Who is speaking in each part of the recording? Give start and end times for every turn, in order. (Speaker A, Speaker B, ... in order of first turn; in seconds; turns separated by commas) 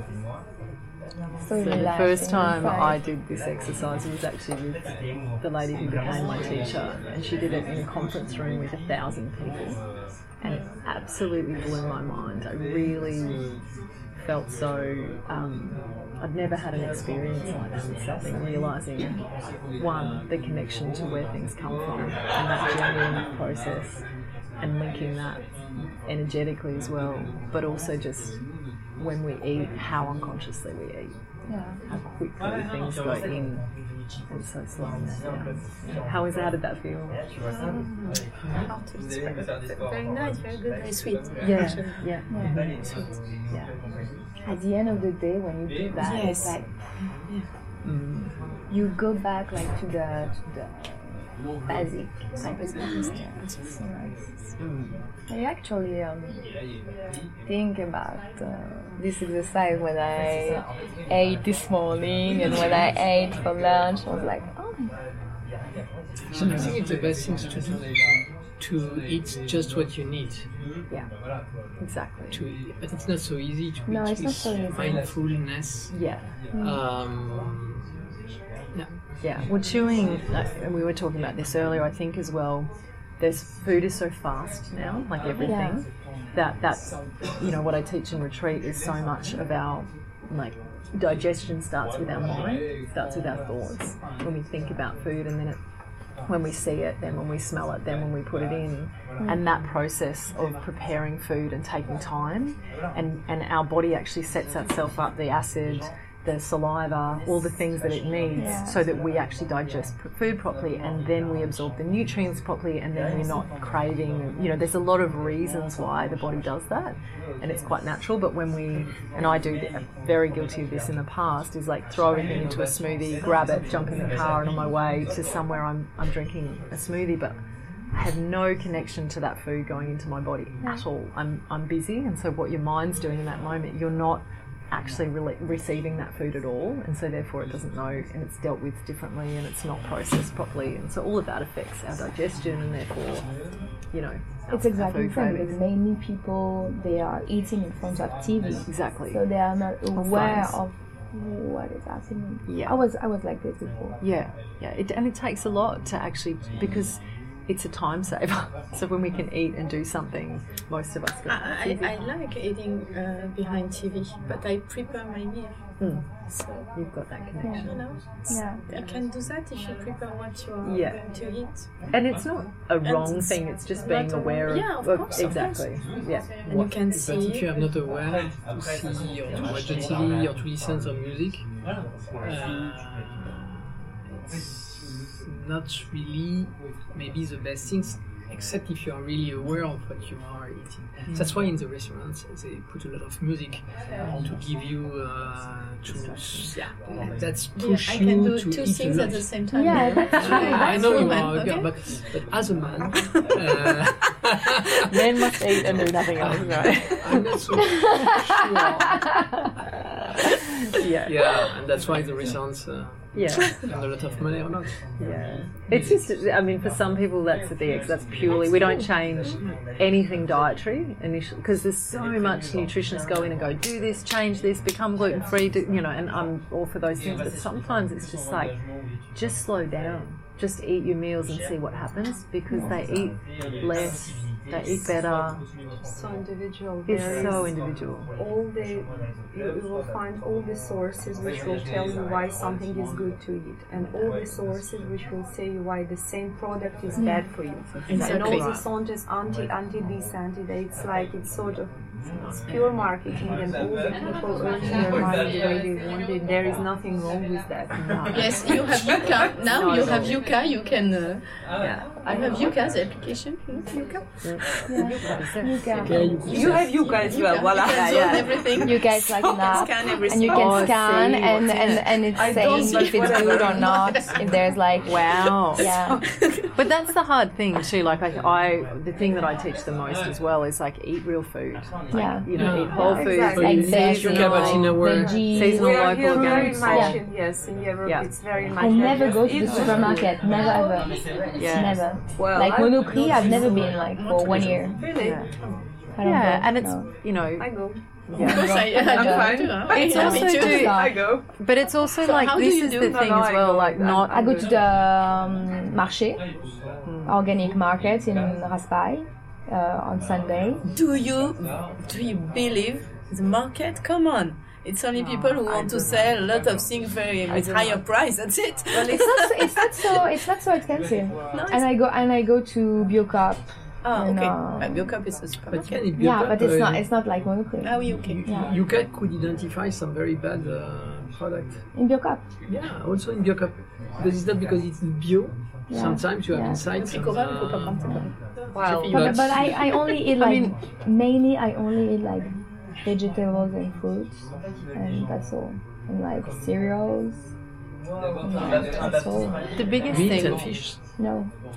Speaker A: 1.4-3.0, Speaker B: 1.6-9.8, Speaker B: 10.4-13.5, Speaker B: 14.2-19.2, Speaker B: 19.8-24.0, Speaker B: 24.6-28.4, Speaker B: 29.0-31.2, Speaker A: 31.5-31.8, Speaker B: 31.9-33.7, Speaker B: 34.3-37.2, Speaker A: 37.5-38.2, Speaker B: 38.4-38.7, Speaker C: 38.5-43.2, Speaker B: 41.4-42.8, Speaker A: 42.3-42.6, Speaker B: 43.5-43.8, Speaker A: 44.5-46.8, Speaker C: 46.0-47.5, Speaker B: 47.8-48.3, Speaker A: 48.7-54.5, Speaker C: 52.4-54.2, Speaker B: 54.6-55.0, Speaker A: 55.3-56.5, Speaker A: 57.5-65.0, Speaker D: 66.3-70.5, Speaker B: 70.9-71.2, Speaker B: 71.8-72.4, Speaker D: 72.3-76.0, Speaker A: 73.9-75.1, Speaker B: 75.9-76.3, Speaker A: 76.5-76.8, Speaker D: 76.5-77.9, Speaker B: 79.2-95.6, Speaker A: 85.4-85.8, Speaker B: 96.3-127.4, Speaker A: 99.2-99.4, Speaker A: 108.4-108.8, Speaker B: 127.9-143.3, Speaker B: 143.9-145.6, Speaker A: 144.5-154.0, Speaker B: 148.7-149.2, Speaker B: 149.9-150.6, Speaker B: 152.5-152.8, Speaker B: 154.0-161.9, Speaker C: 161.3-166.7, Speaker B: 165.8-168.9, Speaker A: 167.4-168.6, Speaker C: 167.6-171.8, Speaker B: 170.6-171.1, Speaker B: 171.9-176.8, Speaker C: 172.8-178.0, Speaker A: 173.8-174.6, Speaker D: 176.9-204.9, Speaker B: 191.1-191.3, Speaker B: 194.0-194.3, Speaker B: 195.9-196.6, Speaker C: 197.6-202.1, Speaker A: 199.5-201.2, Speaker B: 199.7-200.6, Speaker B: 204.9-207.1, Speaker D: 206.2-209.1, Speaker B: 210.7-211.2, Speaker D: 211.0-216.1, Speaker B: 213.1-213.7, Speaker B: 215.0-228.6, Speaker B: 229.1-235.5, Speaker A: 232.5-232.8, Speaker E: 235.8-237.6, Speaker B: 236.9-238.1, Speaker E: 238.2-259.9, Speaker A: 247.0-247.3, Speaker B: 247.7-248.7, Speaker C: 247.9-248.6, Speaker B: 252.2-252.8, Speaker A: 254.7-255.0, Speaker B: 257.8-260.2, Speaker C: 258.1-263.9, Speaker B: 261.6-262.0, Speaker E: 263.8-264.0, Speaker B: 264.2-266.9, Speaker A: 264.7-266.3, Speaker D: 265.8-266.7, Speaker C: 266.2-270.8, Speaker E: 266.2-269.7, Speaker B: 267.7-268.0, Speaker A: 268.6-276.0, Speaker B: 270.3-272.0, Speaker E: 272.1-274.0, Speaker C: 272.3-274.5, Speaker B: 274.8-275.7, Speaker C: 275.6-276.6, Speaker B: 276.6-287.3, Speaker A: 281.9-287.0, Speaker D: 282.3-285.3, Speaker E: 282.7-290.9, Speaker B: 287.8-288.1, Speaker A: 288.6-294.8, Speaker B: 289.4-290.0, Speaker B: 291.4-291.9, Speaker E: 292.2-295.3, Speaker C: 293.4-294.9, Speaker B: 295.0-295.3, Speaker A: 296.0-296.9, Speaker B: 296.0-297.5, Speaker E: 297.4-297.8, Speaker B: 298.1-298.7, Speaker A: 298.1-301.0, Speaker C: 298.2-300.7, Speaker E: 298.7-301.3, Speaker B: 299.7-304.2, Speaker C: 302.0-303.0, Speaker E: 302.4-304.6, Speaker A: 304.1-306.3, Speaker B: 306.9-307.2, Speaker A: 307.0-310.6, Speaker C: 310.7-320.0, Speaker B: 314.9-316.1, Speaker B: 317.3-317.8, Speaker A: 318.7-324.9, Speaker C: 321.3-321.7, Speaker C: 323.8-325.9, Speaker D: 325.5-326.9, Speaker A: 326.0-328.6, Speaker C: 327.6-328.2, Speaker D: 327.8-331.6, Speaker A: 331.7-332.2, Speaker D: 332.5-338.1, Speaker A: 335.7-336.7, Speaker C: 336.8-339.7, Speaker E: 338.5-339.2, Speaker D: 338.6-339.8, Speaker A: 338.9-347.3, Speaker A: 348.2-349.7, Speaker B: 349.6-350.7, Speaker D: 349.9-350.8, Speaker A: 351.0-351.3